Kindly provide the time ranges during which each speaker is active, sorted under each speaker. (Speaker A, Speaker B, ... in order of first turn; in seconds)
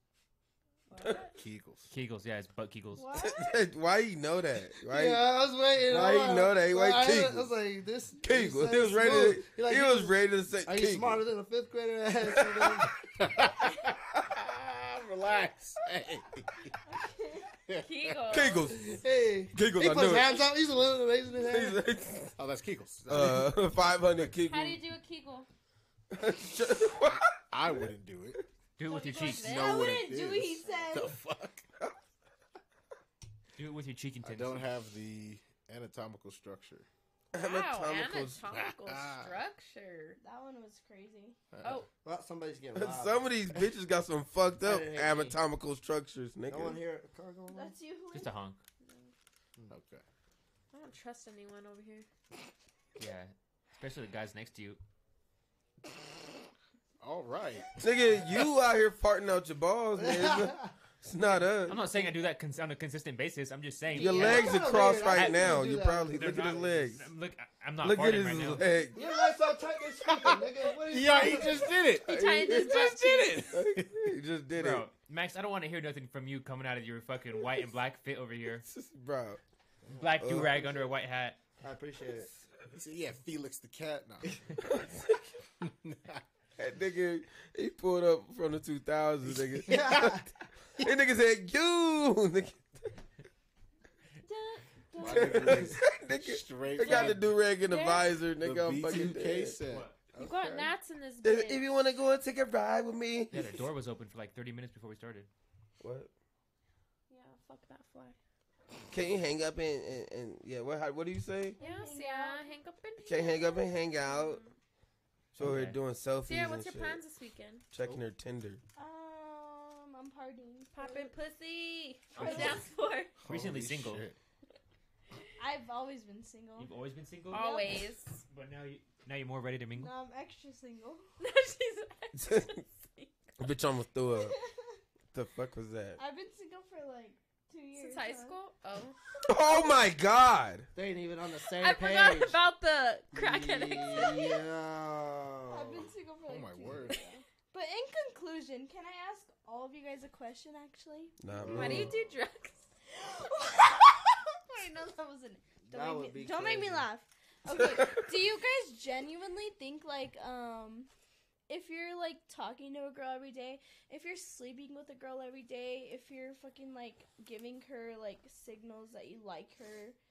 Speaker A: 0.9-1.3, 17.8-18.7, 24.5-25.5, 28.8-29.9, 37.4-40.2, 50.7-52.1, 72.0-73.6, 94.2-95.2, 96.8-97.2, 97.7-98.2, 100.2-101.7, 107.1-108.2, 111.6-114.5, 116.3-117.7, 120.7-123.1, 127.3-128.2, 131.2-133.2, 137.8-139.0, 141.6-144.4, 151.5-152.7
Speaker B: 1.3-1.9, 13.2-16.8, 17.7-18.4, 22.4-23.6, 27.5-28.4, 29.4-31.6, 34.2-36.9, 38.5-39.4, 41.5-41.9, 49.7-50.0, 57.0-57.7, 70.1-74.0, 82.7-84.4, 85.6-86.2, 95.0-97.3, 98.4-100.7, 123.2-124.2, 146.3-147.0, 151.4-151.9
Speaker C: 1.9-3.1, 28.8-29.5, 33.6-34.7, 48.1-48.6, 53.0-54.8, 61.7-65.6, 66.2-68.7, 74.5-78.7, 80.0-81.4, 99.7-100.0, 103.3-105.3, 115.4-115.8, 123.3-124.0, 126.6-127.6, 128.3-129.9
Speaker D: 3.0-3.5, 16.9-17.5, 29.2-31.2, 40.2-41.4, 47.5-48.3, 111.6-112.5, 118.8-121.1, 122.2-122.7, 125.4-126.7, 127.3-127.8, 129.7-131.1, 134.2-134.5, 136.0-138.4, 145.5-151.2, 152.9-160.9, 161.5-170.0
Speaker E: 3.2-5.3, 5.8-7.5, 8.2-11.2, 18.3-19.0, 19.5-20.4, 21.4-22.3, 23.1-24.8, 26.1-27.8, 37.3-38.4, 42.7-46.8, 57.8-61.8, 63.9-67.1, 67.8-69.0, 72.1-72.9, 73.5-74.9, 78.6-79.4, 80.2-80.6, 84.6-85.2, 86.6-90.2, 90.8-92.9, 95.0-99.6, 101.2-103.6, 105.8-106.1, 108.9-111.6, 113.0-114.4, 115.3-117.0, 117.7-118.6, 132.2-132.6, 133.4-134.4, 135.1-136.0, 139.2-140.7, 151.2-151.9, 157.6-158.0
Speaker F: 4.9-12.9, 18.7-21.8, 42.0-43.3, 44.6-45.4, 46.5-47.7, 60.0-60.7, 63.9-66.6, 69.0-71.8, 79.9-80.1, 81.6-82.3, 89.7-90.3, 140.7-142.4, 143.1-145.9, 151.5-151.9, 155.7-156.9